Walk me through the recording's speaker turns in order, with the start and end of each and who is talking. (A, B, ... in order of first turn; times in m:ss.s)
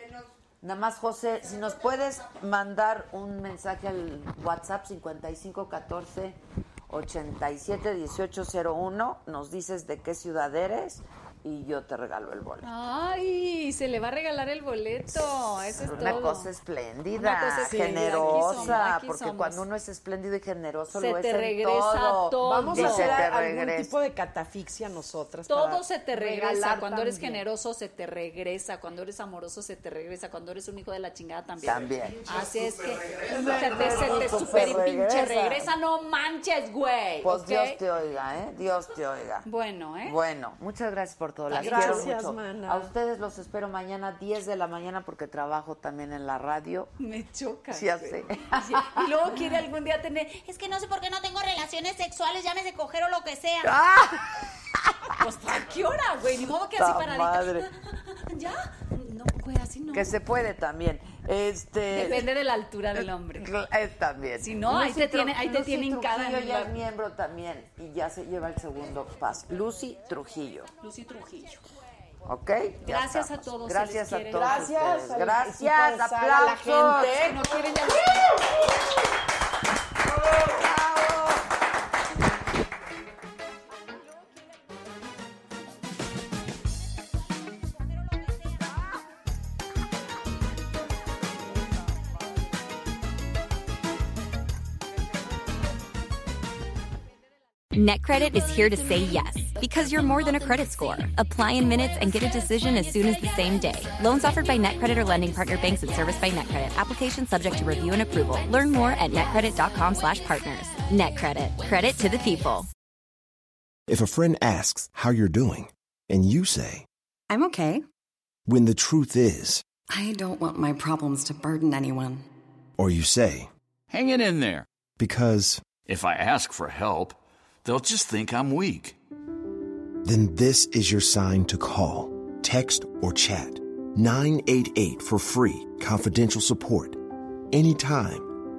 0:00.6-0:12.7 A
0:12.6-0:16.5 B
0:15.7-0:23.9 A
0:17.1-0:19.6 B
0:17.7-0:18.8 C
0:20.9-0:23.3 B
0:22.4-0:27.4 C
0:25.5-0:37.8 B
0:31.6-0:32.5 A
0:33.1-0:34.8 C
0:33.2-0:35.7 A
0:37.2-0:39.5 A
0:39.4-0:40.2 B
0:40.0-0:46.9 A
0:41.5-0:42.1 B
0:41.5-0:42.9 C
0:47.0-0:53.7 B
0:47.7-0:49.2 A
0:53.6-0:55.3 A
0:55.2-1:00.2 B
0:56.8-0:57.7 A
0:59.9-1:02.3 A
1:01.9-1:03.5 B
1:03.0-1:10.7 A
1:04.4-1:06.8 B
1:10.8-1:11.6 B
1:12.2-1:17.4 A
1:12.8-1:14.7 B
1:14.3-1:17.6 C
1:17.2-1:18.3 B
1:20.1-1:21.4 A
1:37.7-1:52.7 D
1:53.9-1:56.9 E
1:57.3-1:57.8 F
1:58.5-1:59.6 E
1:59.9-2:02.3 F
2:02.8-2:03.5 E
2:03.9-2:04.7 G
2:05.0-2:05.7 E
2:05.8-2:09.0 G
2:10.0-2:18.3 E